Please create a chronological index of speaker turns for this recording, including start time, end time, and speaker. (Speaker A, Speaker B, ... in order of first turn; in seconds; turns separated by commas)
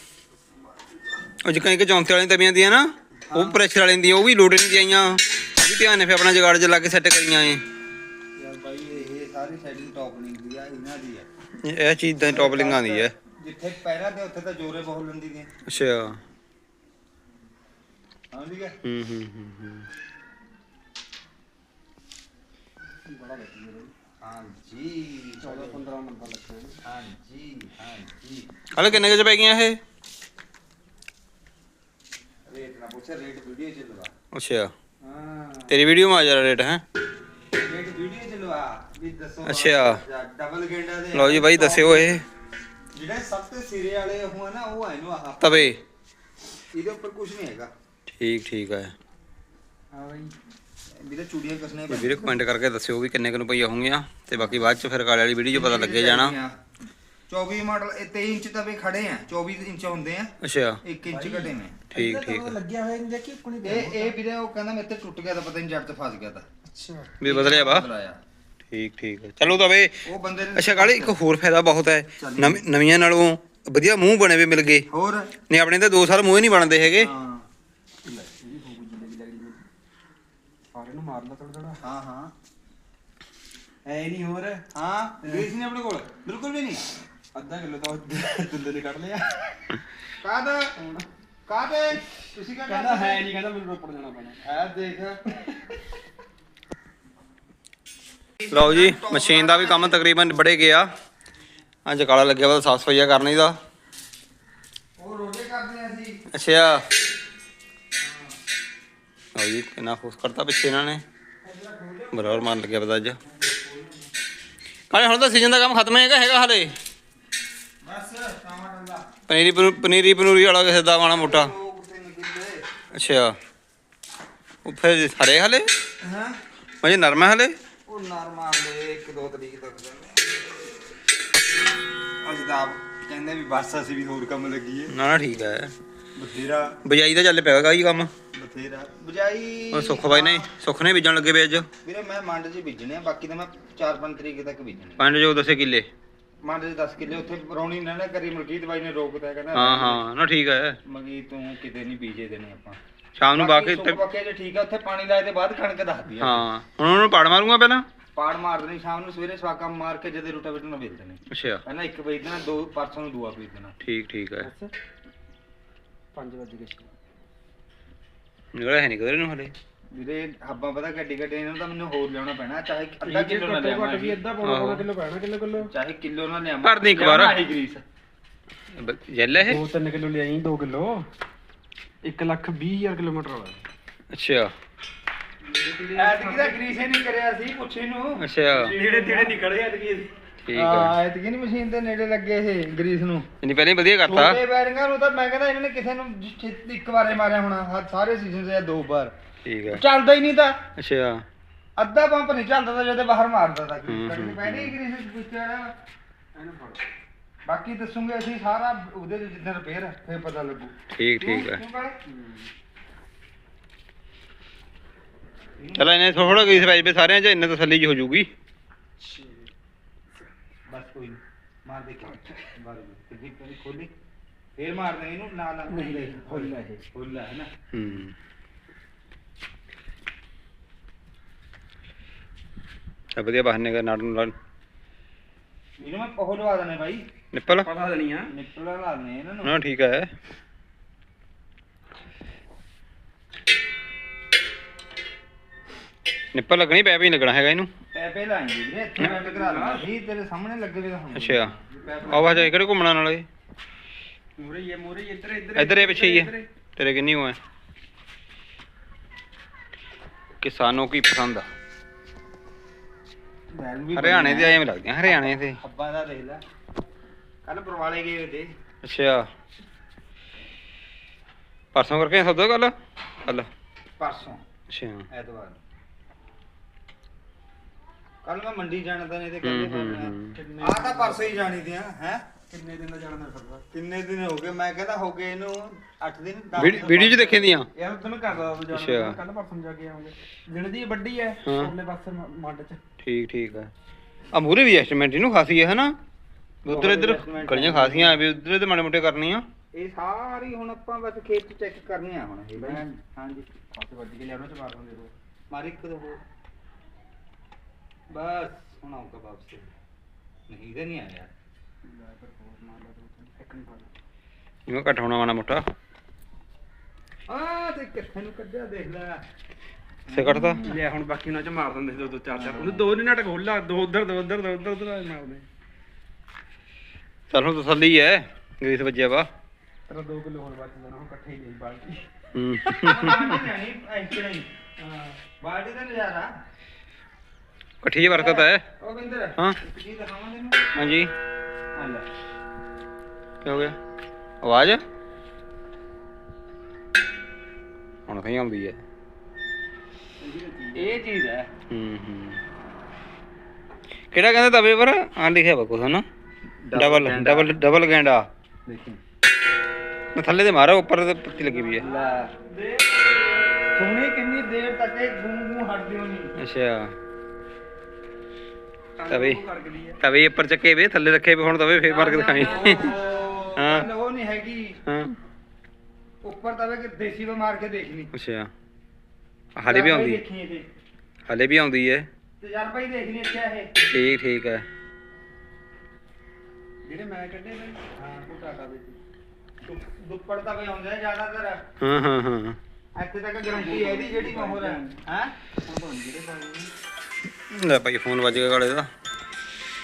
Speaker A: 1.4-7.6, Speaker B: 3.3-3.6, Speaker B: 8.4-11.3, Speaker A: 11.6-13.1, Speaker B: 12.2-15.5, Speaker A: 15.7-16.2, Speaker B: 18.3-18.8, Speaker A: 18.8-19.9, Speaker C: 23.1-23.9, Speaker B: 24.2-25.9, Speaker C: 25.4-26.8, Speaker B: 26.9-28.5, Speaker A: 28.7-29.8, Speaker B: 32.5-34.1, Speaker A: 34.3-34.7, Speaker B: 35.0-35.7, Speaker A: 35.7-36.8, Speaker B: 37.6-42.2, Speaker A: 39.5-40.0, Speaker A: 41.1-42.2, Speaker B: 42.9-45.7, Speaker A: 45.4-45.8, Speaker B: 46.7-47.7, Speaker A: 48.1-48.9, Speaker C: 49.9-50.3, Speaker B: 51.0-52.4, Speaker A: 51.9-56.4, Speaker B: 55.5-56.6, Speaker B: 57.3-60.3, Speaker A: 60.4-60.8, Speaker B: 60.8-61.9, Speaker C: 61.1-64.2, Speaker A: 61.9-62.6, Speaker B: 63.6-66.5, Speaker C: 66.7-67.2, Speaker A: 67.2-67.9, Speaker B: 67.2-68.2, Speaker A: 68.7-70.0, Speaker B: 70.0-71.2, Speaker A: 70.6-74.9, Speaker B: 72.2-72.6, Speaker B: 74.9-75.3, Speaker A: 75.5-77.1, Speaker B: 76.9-77.4, Speaker C: 78.0-79.6, Speaker C: 80.7-81.8, Speaker B: 81.8-82.3, Speaker C: 83.8-84.6, Speaker B: 84.7-86.8, Speaker C: 85.2-85.5, Speaker C: 87.3-89.6, Speaker B: 90.2-90.8, Speaker C: 90.8-91.0, Speaker B: 91.5-93.3, Speaker C: 92.7-94.4, Speaker B: 94.4-95.5, Speaker B: 98.4-100.0, Speaker A: 98.5-100.9, Speaker A: 101.9-103.6, Speaker B: 105.0-106.2, Speaker A: 106.3-106.8, Speaker B: 108.0-108.3, Speaker A: 109.3-111.0, Speaker B: 111.4-112.6, Speaker A: 112.1-113.2, Speaker B: 113.2-114.1, Speaker A: 114.9-116.8, Speaker B: 117.8-119.0, Speaker A: 119.3-121.5, Speaker B: 121.1-122.6, Speaker A: 122.9-123.4, Speaker A: 124.6-125.7, Speaker B: 126.0-126.4, Speaker A: 126.8-127.5, Speaker B: 127.9-130.3, Speaker B: 132.2-134.9, Speaker A: 134.9-135.7, Speaker B: 136.2-136.8, Speaker A: 136.8-138.1, Speaker B: 138.3-140.5, Speaker A: 139.7-141.7, Speaker B: 141.8-145.1, Speaker A: 145.0-145.9, Speaker B: 146.4-150.0, Speaker A: 149.5-150.8, Speaker B: 150.8-152.8, Speaker A: 153.2-154.0, Speaker B: 153.3-156.4, Speaker A: 156.2-157.8, Speaker B: 158.2-163.8, Speaker A: 161.3-161.6, Speaker A: 163.8-164.5, Speaker C: 164.4-164.7, Speaker C: 166.1-166.9, Speaker A: 168.5-169.5, Speaker B: 169.9-174.2, Speaker C: 173.0-175.7, Speaker A: 174.4-174.9, Speaker B: 175.6-177.8, Speaker A: 176.6-177.3, Speaker A: 178.8-179.6, Speaker C: 179.5-181.1, Speaker C: 182.0-183.6, Speaker A: 184.1-184.5, Speaker C: 185.4-186.6, Speaker B: 185.9-188.2, Speaker A: 188.2-188.7, Speaker C: 188.5-190.1, Speaker B: 188.8-189.3, Speaker A: 190.4-190.9, Speaker B: 190.5-193.3, Speaker A: 193.4-194.4, Speaker B: 194.1-199.1, Speaker A: 199.4-199.8, Speaker B: 199.7-200.6, Speaker A: 200.8-201.2, Speaker B: 201.8-205.7, Speaker A: 203.9-204.8, Speaker C: 206.3-206.8, Speaker B: 207.5-212.0, Speaker A: 210.9-211.6, Speaker C: 212.1-212.5, Speaker B: 215.6-216.8, Speaker A: 215.8-218.3, Speaker C: 219.0-219.5, Speaker B: 220.7-223.9, Speaker B: 224.6-227.5, Speaker C: 225.7-226.8, Speaker A: 227.7-228.1, Speaker A: 233.2-234.3, Speaker B: 235.8-237.0, Speaker A: 237.3-237.7, Speaker C: 237.5-238.3, Speaker B: 238.3-239.6, Speaker A: 239.4-240.1, Speaker A: 246.3-247.7, Speaker B: 247.9-252.5, Speaker C: 249.0-249.9, Speaker A: 251.2-251.5, Speaker C: 251.8-252.3, Speaker A: 252.1-253.3, Speaker C: 254.4-256.5, Speaker A: 255.6-257.4, Speaker A: 260.4-261.5, Speaker B: 263.5-266.4, Speaker A: 263.9-265.6, Speaker B: 267.4-268.5, Speaker A: 268.8-269.3, Speaker A: 271.7-273.5, Speaker B: 274.0-274.4, Speaker A: 274.7-275.1, Speaker B: 275.1-275.6, Speaker B: 278.2-282.2, Speaker A: 279.4-280.4, Speaker C: 280.3-281.6, Speaker C: 282.5-283.7, Speaker B: 283.7-287.5, Speaker A: 286.6-287.7, Speaker C: 287.7-292.8, Speaker A: 288.7-289.2, Speaker A: 291.4-291.7, Speaker A: 293.0-293.7, Speaker A: 294.3-295.9, Speaker A: 296.6-299.4, Speaker B: 296.7-298.2, Speaker B: 299.7-303.5, Speaker C: 302.6-302.8, Speaker C: 303.7-305.1, Speaker B: 305.5-306.2, Speaker B: 308.1-309.7, Speaker B: 310.5-311.3, Speaker C: 311.8-313.9, Speaker A: 314.7-315.6, Speaker B: 317.3-319.2, Speaker B: 320.1-320.8, Speaker A: 320.1-320.6, Speaker C: 320.6-325.5, Speaker B: 322.4-322.9, Speaker A: 327.3-329.3, Speaker C: 329.9-332.1, Speaker A: 332.3-333.3, Speaker B: 332.8-334.9, Speaker B: 335.4-336.3, Speaker A: 337.8-338.6, Speaker B: 338.0-340.6, Speaker A: 340.8-341.1, Speaker B: 341.8-342.1, Speaker A: 343.4-343.8, Speaker A: 344.4-344.8, Speaker A: 348.1-348.8, Speaker C: 350.2-351.0, Speaker B: 350.7-351.5, Speaker A: 351.7-352.4, Speaker A: 354.1-356.1, Speaker B: 356.6-357.6, Speaker A: 356.7-358.3, Speaker B: 358.7-359.0, Speaker A: 360.1-361.9, Speaker C: 361.4-363.2, Speaker B: 361.8-362.3, Speaker B: 363.8-366.3, Speaker A: 366.4-366.9, Speaker C: 369.0-370.0, Speaker A: 369.1-369.4, Speaker A: 370.0-372.9, Speaker C: 371.8-373.7, Speaker B: 372.6-374.8, Speaker A: 373.6-373.9, Speaker A: 374.9-375.1, Speaker B: 376.2-378.1, Speaker A: 378.1-378.5, Speaker A: 379.6-380.2, Speaker B: 379.7-380.7, Speaker A: 381.3-382.1, Speaker B: 382.4-383.7, Speaker A: 383.9-384.6, Speaker C: 386.8-389.0, Speaker B: 388.0-388.2, Speaker B: 389.6-391.6, Speaker A: 391.8-392.6, Speaker B: 392.9-395.3, Speaker C: 393.5-395.0, Speaker C: 395.6-396.7, Speaker A: 397.5-398.9